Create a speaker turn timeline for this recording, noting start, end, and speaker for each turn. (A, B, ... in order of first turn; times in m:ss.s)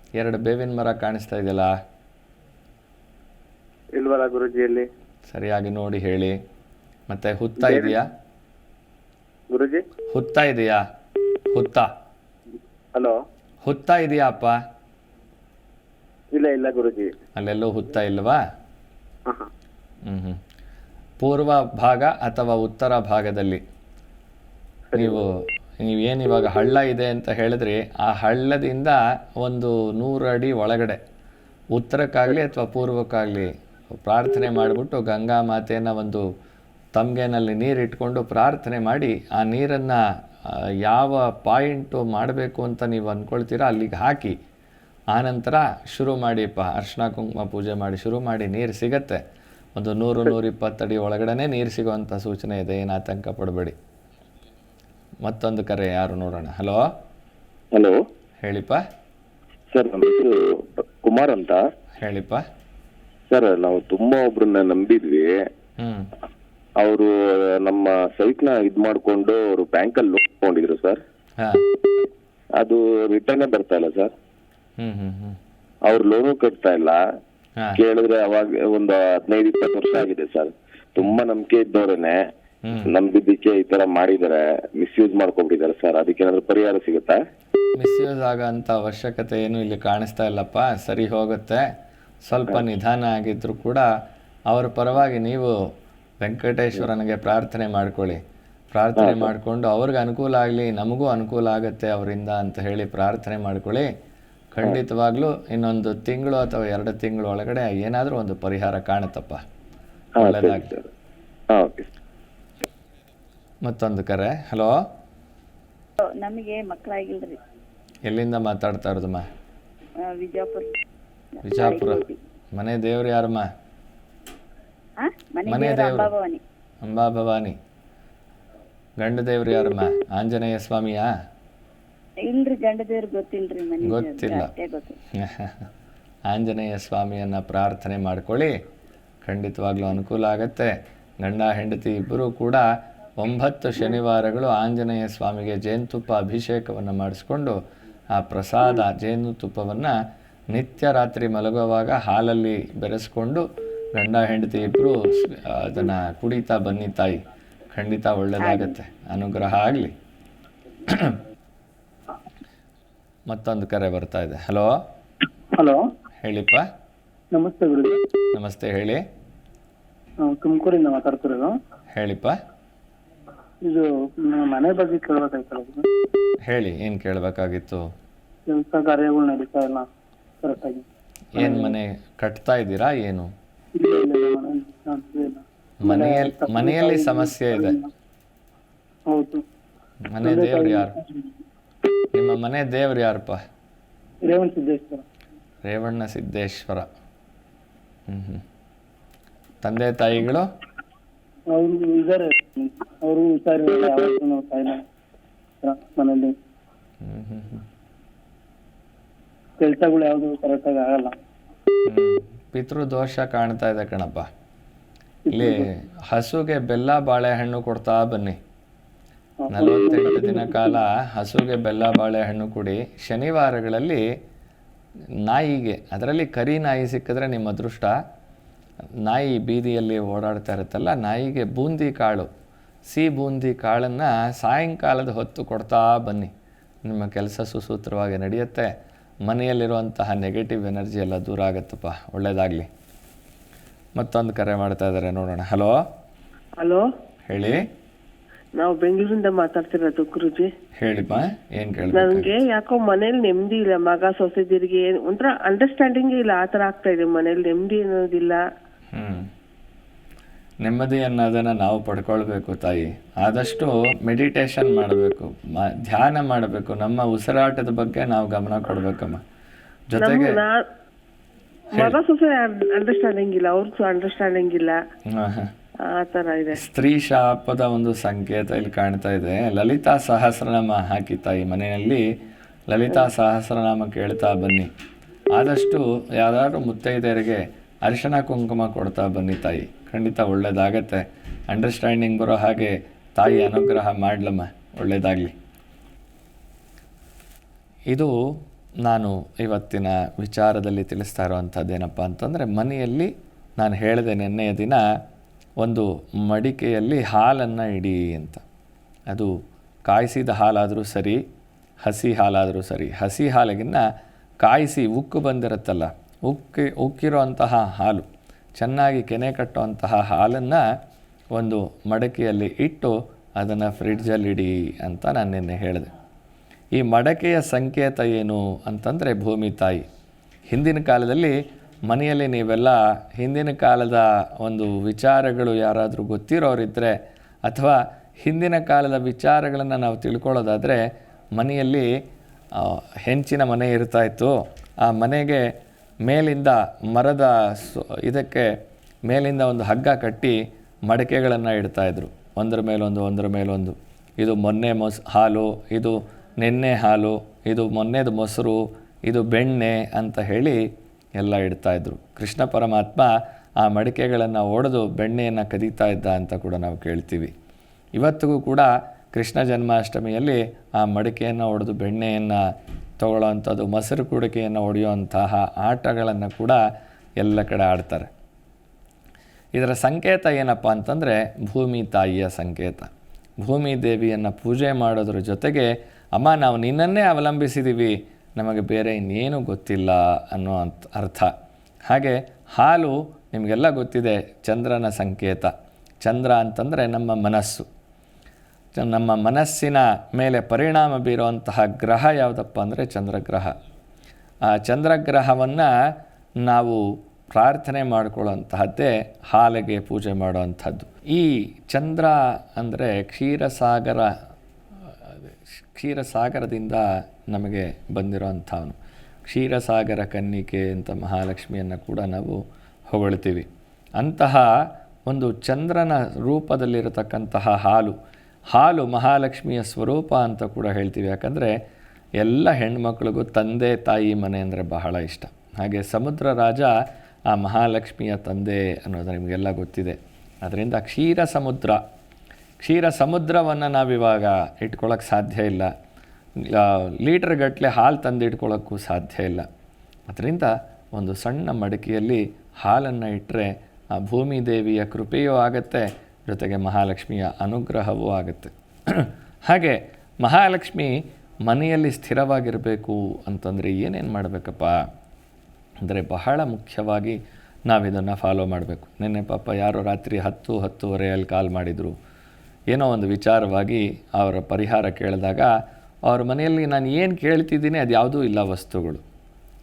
0:00.2-0:01.8 A
0:03.9-0:04.9 B
0:05.3-0:06.4 A
0:07.1-0:08.1 A
0:07.6-0:08.0 B
0:09.5-0:09.8 B
0:10.1-0:10.8 A
0:11.5-0:11.9 A
0:13.6-0:14.6 A
0:16.3-0:17.1 B
0:17.4-0:18.4 A
0:20.0-0:20.4 A
0:21.2-0:23.6 A
0:24.9-0:25.2 B
0:24.9-0:31.0 A
0:31.7-0:36.2 A
0:36.9-0:44.4 A
0:45.1-0:49.2 A
0:49.8-0:53.8 A
0:55.2-0:56.9 A
0:57.7-0:58.0 C
0:58.4-0:58.8 A
0:59.7-1:01.6 C
1:02.0-1:02.4 A
1:03.3-1:05.4 C
1:05.8-1:06.1 A
1:06.8-1:11.0 C
1:11.4-1:11.6 A
1:12.6-1:14.1 C
1:14.8-1:15.4 A
1:15.9-1:17.0 C
1:17.7-1:22.2 C
1:22.6-1:22.9 A
1:22.8-1:27.2 C
1:27.8-1:31.7 A
1:32.3-1:33.9 A
1:34.5-1:35.6 A
1:36.2-1:38.2 A
1:38.7-1:43.9 A
1:39.0-1:39.3 C
1:44.5-1:49.4 A
1:50.2-1:50.9 C
1:50.2-1:50.7 A
1:51.5-1:51.9 C
1:53.6-1:54.7 A
1:56.0-1:57.4 D
1:58.0-1:59.2 A
2:00.0-2:00.7 D
2:01.4-2:02.2 D
2:01.4-2:02.0 A
2:02.5-2:03.5 A
2:05.0-2:06.4 D
2:05.4-2:06.1 A
2:06.8-2:07.6 A
2:09.0-2:11.1 A
2:12.2-2:15.0 D
2:13.8-2:14.5 A
2:15.1-2:15.7 A
2:16.3-2:18.5 A
2:19.2-2:22.6 A
2:23.2-2:27.6 A
2:28.1-2:29.9 A
2:30.5-2:33.4 A
2:33.9-2:39.9 A
2:40.9-2:41.2 A
2:43.3-2:44.7 A
2:45.6-2:45.8 E
2:46.2-2:46.6 A
2:47.3-2:48.0 E
2:48.3-2:49.0 A
2:50.2-2:51.5 E
2:51.9-2:52.4 A
2:53.6-2:55.8 E
2:56.4-2:57.9 A
2:58.5-2:59.8 E
3:00.4-3:00.8 E
3:01.3-3:03.3 A
3:01.4-3:01.8 E
3:03.8-3:07.9 E
3:05.8-3:07.7 A
3:09.1-3:09.4 E
3:10.1-3:10.9 A
3:10.2-3:11.3 E
3:12.1-3:13.4 A
3:14.2-3:15.0 E
3:15.6-3:16.9 A
3:18.1-3:18.4 A
3:19.6-3:20.5 A
3:21.5-3:24.8 E
3:25.6-3:26.3 E
3:27.0-3:27.6 A
3:29.6-3:31.1 E
3:31.8-3:34.3 A
3:35.3-3:35.7 E
3:35.3-3:38.4 A
3:39.4-3:40.8 E
3:39.5-3:44.0 A
3:45.2-3:48.0 A
3:49.0-3:52.3 A
3:52.9-3:56.3 A
3:56.8-3:58.7 A
3:59.2-4:02.7 A
4:04.0-4:05.8 A
4:06.6-4:06.9 F
4:07.3-4:07.6 A
4:08.6-4:10.5 F
4:10.8-4:12.4 A
4:11.9-4:18.4 F
4:18.9-4:19.3 A
4:20.6-4:29.2 A
4:29.9-4:30.4 A
4:30.0-4:30.6 F
4:31.7-4:34.8 F
4:35.1-4:35.5 A
4:35.9-4:36.6 F
4:36.5-4:42.0 A
4:42.7-4:44.7 A
4:45.3-4:55.3 A
4:58.8-5:04.8 A
5:05.6-5:08.4 A
5:09.9-5:11.2 A
5:11.8-5:13.8 A
5:14.4-5:20.6 A
5:21.3-5:25.9 A
5:26.8-5:29.8 A
5:30.5-5:31.3 A
5:31.9-5:37.0 A
5:37.5-5:40.8 A
5:41.4-5:41.9 A
5:42.5-5:45.4 A
5:46.0-5:48.5 A
5:49.1-6:00.6 A
6:01.2-6:07.3 A
6:08.0-6:12.4 A
6:13.0-6:16.6 A
6:17.2-6:18.1 A
6:19.5-6:22.9 A
6:23.4-6:31.3 A
6:31.9-6:37.7 A
6:38.7-6:43.5 A
6:44.5-6:45.7 A
6:46.4-6:54.1 A
6:54.8-7:04.5 A
7:05.1-7:08.0 A
7:08.5-7:11.5 A
7:12.2-7:16.7 A
7:17.3-7:21.8 A
7:22.6-7:25.7 A
7:26.4-7:29.4 A
7:30.1-7:40.9 A
7:41.4-7:44.8 A
7:45.8-7:51.9 A
7:52.7-7:55.5 A
7:56.1-7:59.0 A